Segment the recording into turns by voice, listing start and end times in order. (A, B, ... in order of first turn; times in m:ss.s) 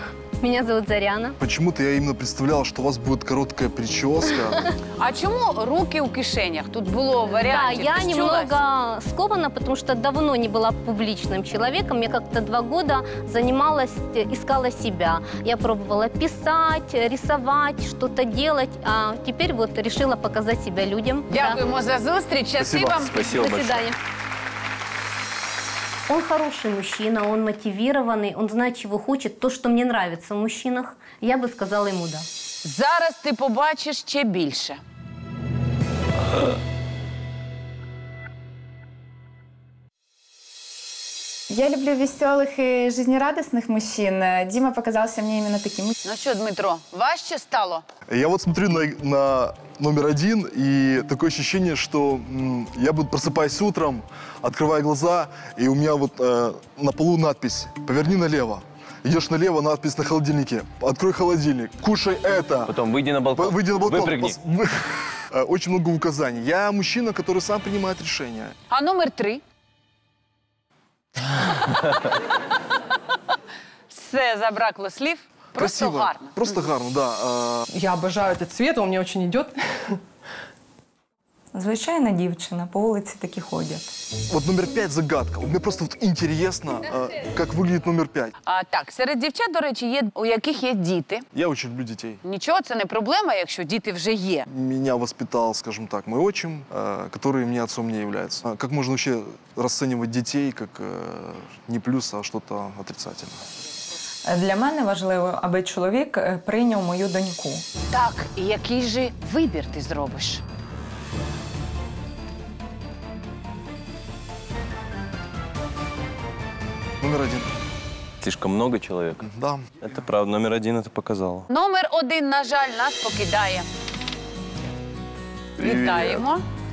0:00.4-0:01.4 A
0:01.4-0:04.6 B
0:05.0-0:08.6 C
0:07.3-0:21.6 A
0:21.3-0:23.3 C
0:22.6-0:23.9 D
0:23.2-0:24.0 A
0:26.1-0:32.3 A
0:32.6-0:34.8 C
0:41.5-0:45.9 E
0:46.0-0:47.8 C
0:48.1-1:02.8 B
1:02.7-1:04.4 D
1:03.3-1:08.6 B
1:08.7-1:09.4 C
1:13.9-1:16.4 C
1:15.6-1:17.7 B
1:17.7-1:20.0 F
1:21.5-1:23.9 G
1:24.3-1:28.3 B
1:28.5-1:31.2 C
1:31.3-1:32.2 B
1:32.2-1:34.5 C
1:34.5-1:43.4 B
1:44.3-1:47.6 G
1:47.9-1:50.4 C
1:57.0-1:57.5 B
1:58.2-1:59.2 D
1:59.2-1:59.6 B
1:59.8-2:01.5 D
2:01.5-2:03.7 C
2:05.6-2:06.2 B
2:05.6-2:06.4 C